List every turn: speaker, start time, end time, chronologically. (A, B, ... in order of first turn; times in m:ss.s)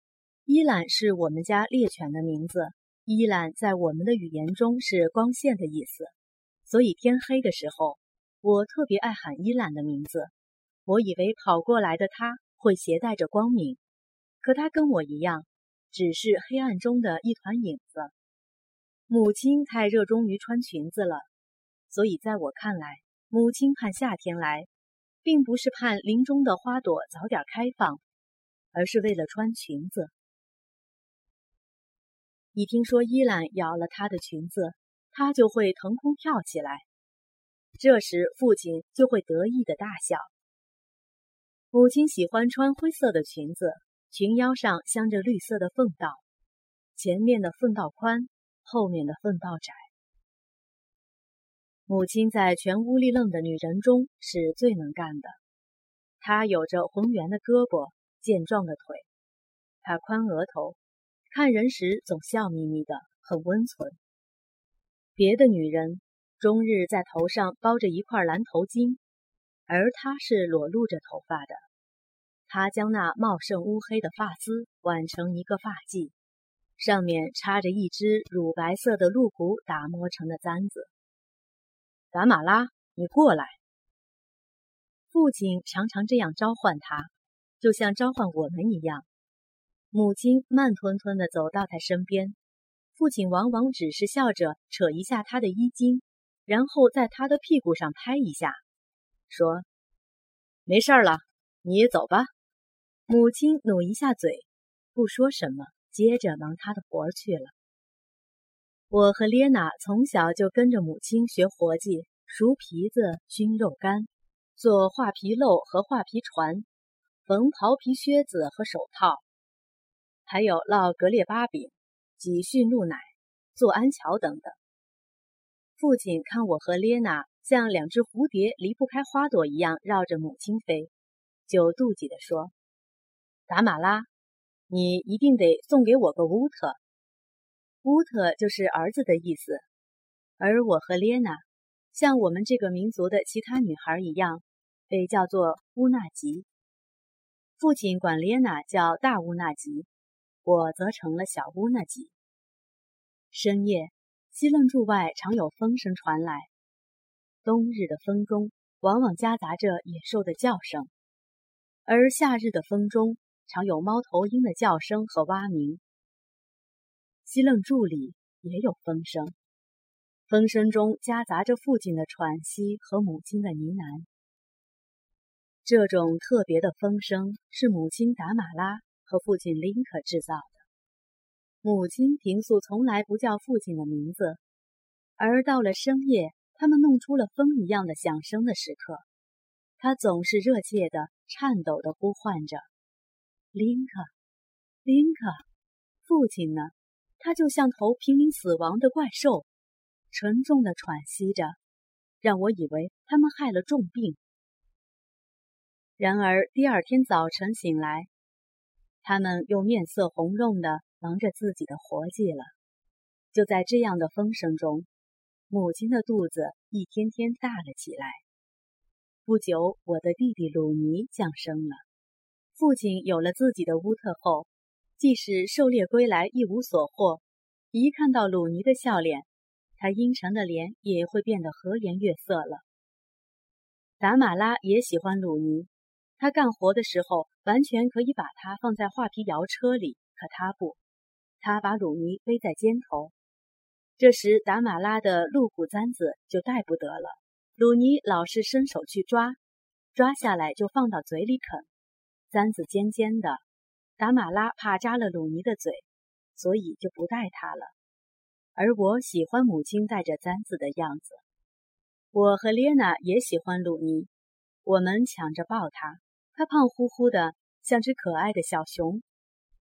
0:00.4-0:06.1 A
0:06.6-0:10.3 A
0:10.9-0:13.8 A
0:14.4-0:18.1 A
0:19.1-0:21.3 A
0:21.9-0:24.7 A
0:25.2-0:28.0 A
0:28.7-0:30.1 A
0:32.5-0:36.8 A
0:37.8-0:40.3 A
0:41.7-0:46.2 A
0:46.9-0:49.9 A
0:51.9-0:55.4 A
0:56.2-0:59.1 A
0:59.8-1:00.8 A
1:01.3-1:04.0 A
1:05.2-1:09.0 A
1:09.7-1:11.6 A
1:12.5-1:16.1 A
1:16.8-1:20.9 A
1:22.1-1:23.6 A
1:25.1-1:29.1 A
1:29.9-1:32.4 A
1:33.0-1:38.6 A
1:39.3-1:39.6 A
1:40.6-1:42.3 A
1:43.1-1:47.5 A
1:48.9-1:56.7 A
1:57.2-1:59.2 A
2:00.2-2:04.6 A
2:05.8-2:10.9 A
2:11.5-2:12.5 A
2:13.5-2:14.1 A
2:14.7-2:16.8 A
2:17.8-2:19.6 A
2:20.4-2:26.5 A
2:27.6-2:29.9 A
2:30.4-2:32.1 A
2:33.3-2:36.5 A
2:37.4-2:40.9 A
2:41.9-2:45.8 A
2:47.2-2:49.4 A
2:50.3-2:54.1 A
2:55.6-3:00.6 A
3:01.6-3:04.4 A
3:05.2-3:09.0 A
3:09.8-3:12.7 A
3:13.5-3:14.1 A
3:14.8-3:15.4 A
3:16.0-3:19.5 A
3:20.1-3:21.6 A
3:22.2-3:24.2 A
3:26.0-3:28.1 A
3:29.0-3:32.5 A
3:33.3-3:34.9 A
3:35.5-3:38.2 A
3:39.2-3:41.8 A
3:42.6-3:52.6 A
3:54.0-4:00.8 A
4:01.4-4:03.1 A
4:04.0-4:09.4 A
4:09.9-4:11.7 A
4:12.3-4:13.4 A
4:14.0-4:17.7 A
4:18.6-4:21.2 A
4:22.1-4:24.1 A
4:24.6-4:29.0 A